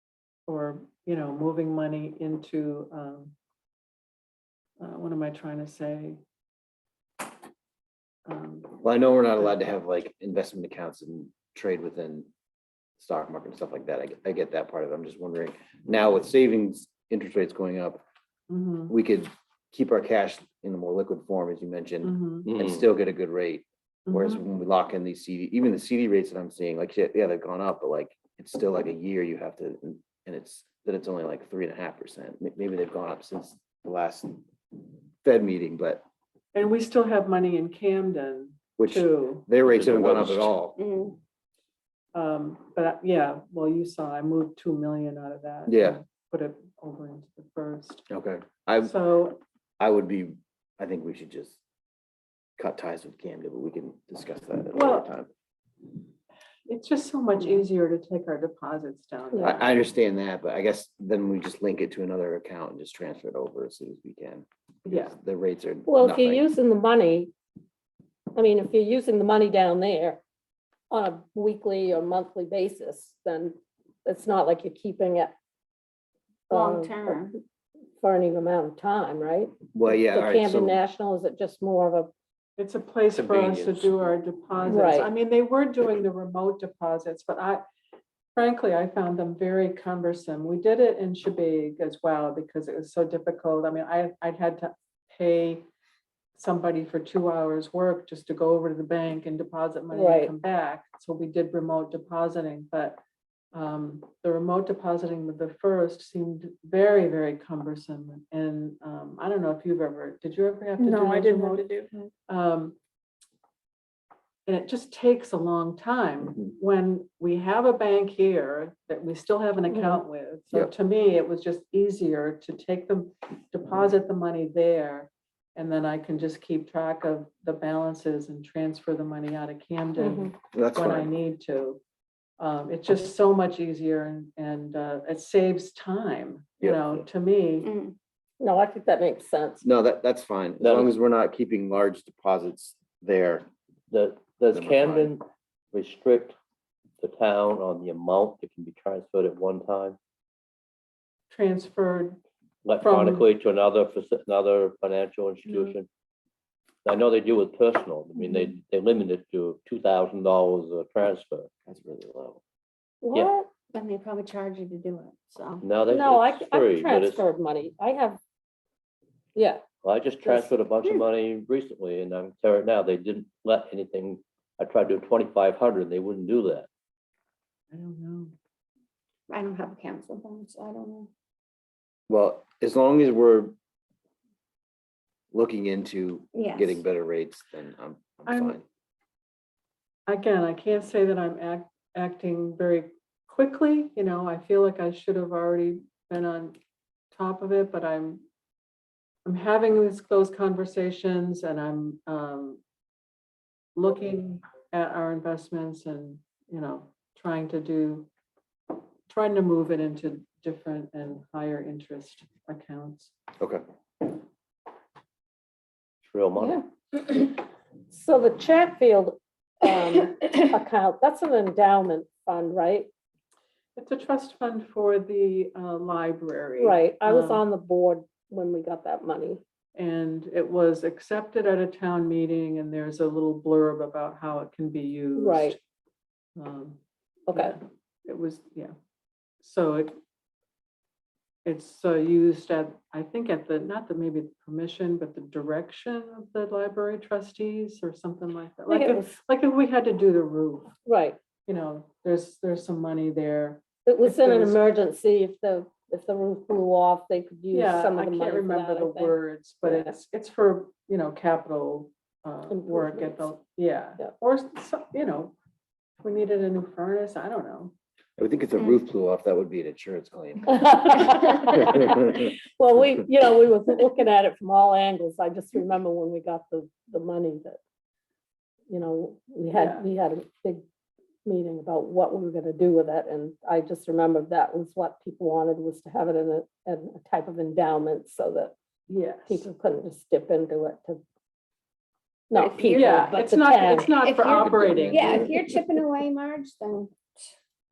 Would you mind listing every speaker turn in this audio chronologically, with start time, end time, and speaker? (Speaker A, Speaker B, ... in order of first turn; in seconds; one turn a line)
Speaker A: 0.5-3.3
Speaker A: 4.8-6.2
Speaker A: 8.2-8.8
Speaker B: 8.8-12.3
Speaker B: 13.0-18.0
Speaker A: 18.5-18.9
Speaker B: 18.9-34.4
Speaker A: 22.0-22.5
Speaker C: 22.4-22.8
Speaker A: 24.1-24.4
Speaker B: 35.2-36.0
Speaker A: 36.5-39.5
Speaker B: 38.8-40.8
Speaker C: 39.6-40.5
Speaker D: 40.8-41.2
Speaker A: 42.1-48.1
Speaker B: 45.7-46.0
Speaker B: 48.1-48.9
Speaker A: 48.8-49.4
Speaker B: 49.8-51.6
Speaker B: 52.6-55.3
Speaker A: 54.7-55.1
Speaker A: 56.7-59.7
Speaker B: 59.4-66.4
Speaker A: 64.8-65.1
Speaker E: 65.9-67.3
Speaker E: 68.3-70.2
Speaker E: 70.9-75.3
Speaker E: 76.5-77.4
Speaker D: 76.5-77.3
Speaker E: 78.0-82.1
Speaker B: 79.7-80.8
Speaker A: 82.6-87.6
Speaker B: 83.1-83.9
Speaker E: 84.7-85.1
Speaker A: 88.3-95.6
Speaker A: 96.3-103.0
Speaker E: 99.9-100.3
Speaker A: 103.5-111.7
Speaker D: 110.8-112.0
Speaker A: 112.3-112.8
Speaker A: 114.5-131.8
Speaker E: 119.7-120.0
Speaker E: 130.0-130.3
Speaker B: 130.5-131.1
Speaker A: 132.4-137.7
Speaker B: 136.6-137.0
Speaker D: 137.6-137.9
Speaker E: 138.4-139.7
Speaker B: 139.6-143.5
Speaker C: 140.6-140.9
Speaker C: 143.9-146.3
Speaker B: 144.5-145.1
Speaker C: 147.0-150.0
Speaker A: 151.3-152.2
Speaker C: 152.6-155.9
Speaker A: 152.8-153.2
Speaker C: 156.8-161.5
Speaker B: 161.7-162.4
Speaker E: 163.0-163.5
Speaker D: 163.7-165.6
Speaker C: 165.6-167.2
Speaker E: 165.9-168.2
Speaker E: 169.3-169.6
Speaker C: 169.8-176.7
Speaker A: 177.7-178.3
Speaker D: 179.3-181.1
Speaker B: 182.1-183.5
Speaker B: 185.3-188.6
Speaker D: 186.3-186.8
Speaker A: 188.3-188.6
Speaker A: 190.1-196.6
Speaker A: 197.1-198.2
Speaker A: 199.2-202.6
Speaker A: 203.8-208.1
Speaker A: 209.1-213.1
Speaker C: 216.0-216.7
Speaker E: 216.4-217.3
Speaker E: 217.9-222.9
Speaker A: 223.8-227.4
Speaker E: 226.6-229.4
Speaker A: 229.8-235.6
Speaker E: 235.1-235.6
Speaker A: 236.3-236.8
Speaker E: 237.3-237.6
Speaker A: 237.3-238.7
Speaker A: 239.4-240.0
Speaker A: 241.4-250.8
Speaker E: 248.7-249.2
Speaker E: 250.8-251.2
Speaker A: 251.4-254.6
Speaker E: 253.8-259.9
Speaker A: 257.5-265.3
Speaker E: 262.5-263.3
Speaker A: 266.0-267.7
Speaker B: 268.2-271.1
Speaker E: 270.5-277.6
Speaker B: 271.7-272.2
Speaker E: 278.7-280.6
Speaker A: 279.5-279.9
Speaker E: 281.2-288.5
Speaker A: 288.9-289.4
Speaker E: 289.3-291.0
Speaker E: 292.3-294.0
Speaker D: 292.4-293.2
Speaker A: 292.7-295.3
Speaker D: 293.9-297.3
Speaker B: 294.9-295.6